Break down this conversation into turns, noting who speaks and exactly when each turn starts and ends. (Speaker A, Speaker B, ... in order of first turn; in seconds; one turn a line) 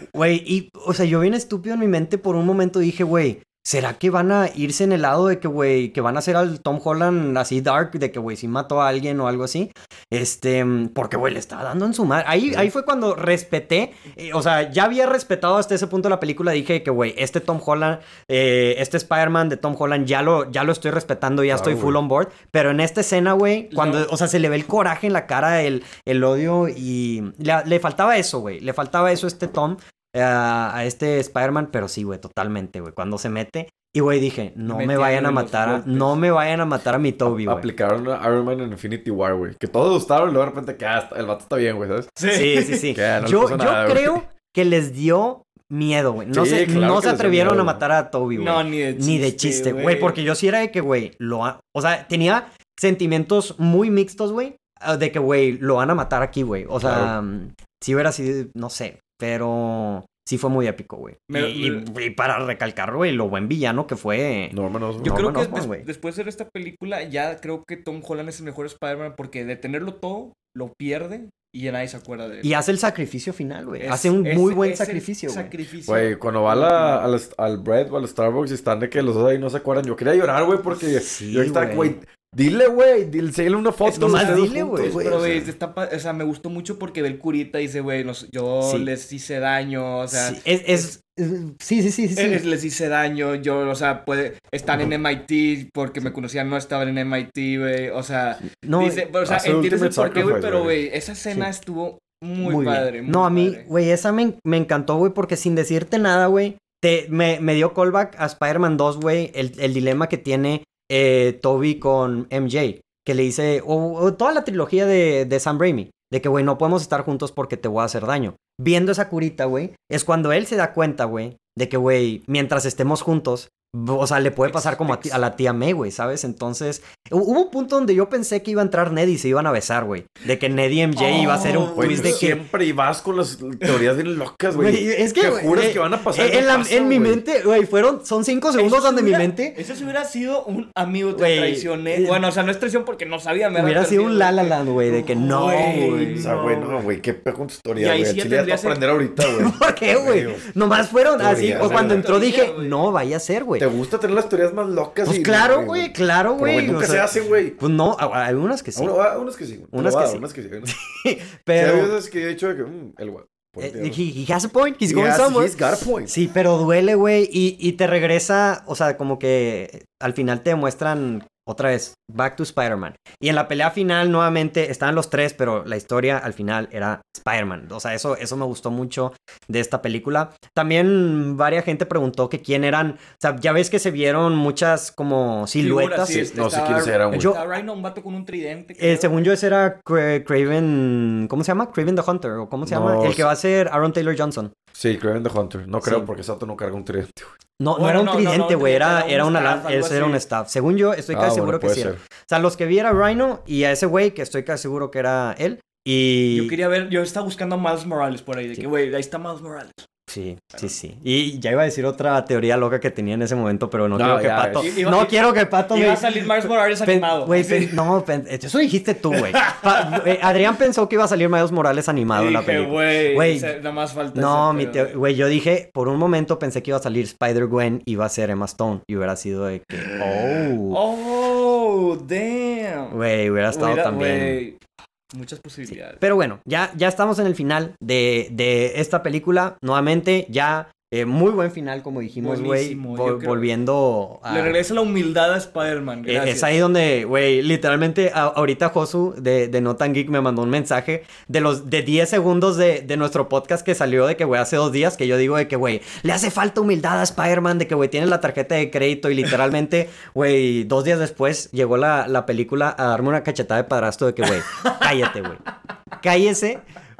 Speaker A: 0.1-37.7
Speaker B: 21.5-22.0
Speaker C: 23.7-24.1
Speaker C: 34.7-36.2
Speaker B: 37.2-42.1
Speaker C: 42.2-42.9
Speaker A: 42.3-65.9
Speaker B: 42.9-44.2
Speaker B: 46.3-47.8
Speaker C: 48.4-50.2
Speaker B: 56.8-57.1
Speaker C: 61.3-61.9
Speaker B: 64.5-65.2
Speaker C: 65.0-72.5
Speaker A: 72.4-75.5
Speaker C: 73.8-77.1
Speaker B: 75.9-85.5
Speaker A: 80.8-82.0
Speaker C: 83.8-90.9
Speaker A: 84.0-85.0
Speaker A: 88.6-88.9
Speaker A: 90.1-92.4
Speaker C: 92.2-103.7
Speaker A: 98.5-99.0
Speaker B: 99.2-100.8
Speaker A: 102.4-132.4
Speaker C: 124.5-125.2
Speaker C: 130.9-132.2
Speaker B: 131.8-137.2
Speaker A: 134.5-139.6
Speaker C: 138.6-146.8
Speaker A: 141.1-142.2
Speaker A: 143.6-146.3
Speaker B: 146.2-150.4
Speaker C: 147.8-148.8
Speaker A: 149.2-153.7
Speaker B: 151.2-152.1
Speaker C: 151.4-152.8
Speaker B: 153.6-157.6
Speaker A: 155.1-158.9
Speaker B: 158.8-160.7
Speaker A: 159.7-161.9
Speaker B: 161.6-164.0
Speaker A: 163.6-186.3
Speaker B: 164.9-166.1
Speaker C: 185.6-189.2
Speaker B: 186.1-187.3
Speaker A: 187.1-187.6
Speaker A: 188.8-194.5
Speaker B: 192.6-193.3
Speaker B: 194.7-197.3
Speaker A: 195.8-196.1
Speaker A: 197.6-206.6
Speaker C: 197.8-200.2
Speaker B: 201.1-202.0
Speaker C: 206.3-209.9
Speaker A: 210.1-216.1
Speaker B: 213.9-214.7
Speaker C: 214.6-217.8
Speaker A: 216.8-223.5
Speaker C: 219.1-220.3
Speaker C: 222.1-225.0
Speaker A: 224.1-230.8
Speaker C: 229.7-233.0
Speaker A: 232.9-234.4
Speaker C: 233.5-234.6
Speaker C: 235.1-236.0
Speaker A: 235.7-244.6
Speaker C: 242.2-243.5
Speaker C: 244.3-246.6
Speaker A: 246.1-265.4
Speaker A: 266.0-266.6